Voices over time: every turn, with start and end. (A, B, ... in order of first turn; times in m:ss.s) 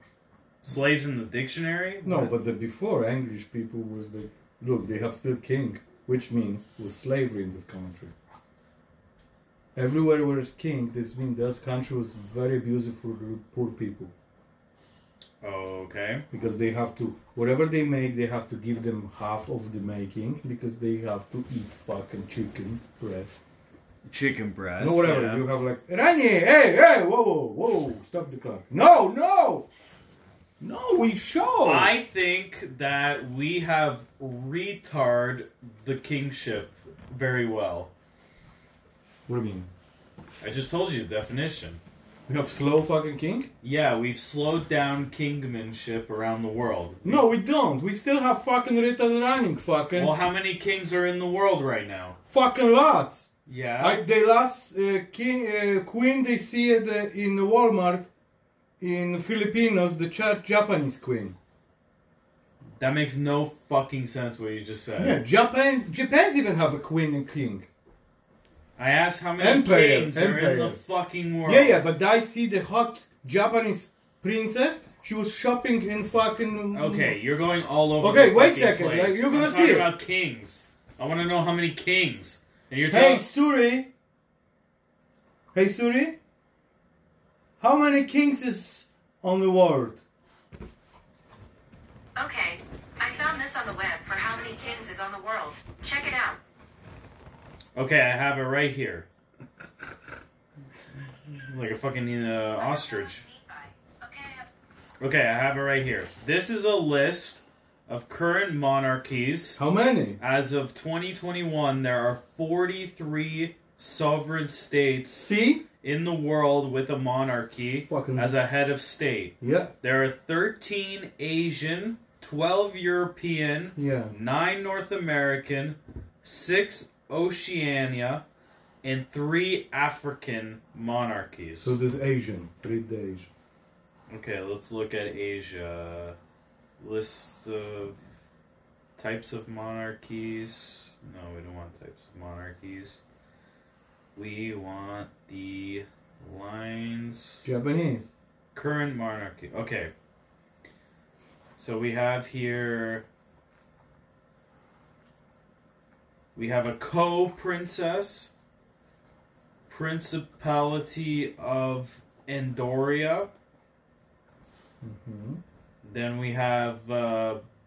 0:00.6-0:02.3 A
0:02.0-0:08.1 B
0:09.7-0:14.1 B
0:15.4-0:16.2 A
0:16.3-0:23.4 B
0:24.0-0:25.4 A
0:24.8-0:29.7 B
0:30.6-0:31.9 B
0:31.6-0:37.9 A
0:39.3-0:39.7 B
0:40.4-0:41.8 A
0:42.3-0:43.5 B
0:43.6-0:47.2 A
0:47.0-0:50.1 B
0:49.9-0:52.2 A
0:52.2-0:53.3 B
0:53.4-0:54.0 A
0:53.8-0:58.1 B
0:58.8-1:01.4 B
1:02.8-1:05.2 A
1:05.0-1:07.7 B
1:08.8-1:11.8 A
1:09.4-1:10.8 B
1:11.4-1:17.2 B
1:16.7-1:23.2 A
1:18.0-1:19.9 B
1:22.9-1:23.9 B
1:25.5-1:26.2 B
1:27.6-1:30.0 B
1:32.2-1:36.4 C
1:37.7-1:39.0 A
1:41.4-1:43.2 A
1:42.6-1:44.5 C
1:45.0-1:49.6 A
1:49.6-1:50.2 B
1:50.2-2:08.2 A
1:55.1-1:55.6 B
1:57.8-1:58.3 B
1:59.4-1:59.7 B
2:03.8-2:04.1 B
2:08.8-2:11.8 A
2:11.6-2:13.3 B
2:14.1-2:16.2 A
2:16.8-2:18.0 A
2:19.0-2:23.0 A
2:24.1-2:27.5 A
2:27.4-2:28.1 B
2:28.5-2:29.9 A
2:31.5-2:33.0 A
2:36.4-2:38.3 A
2:39.7-2:43.3 A
2:44.8-2:45.4 B
2:45.8-2:47.4 A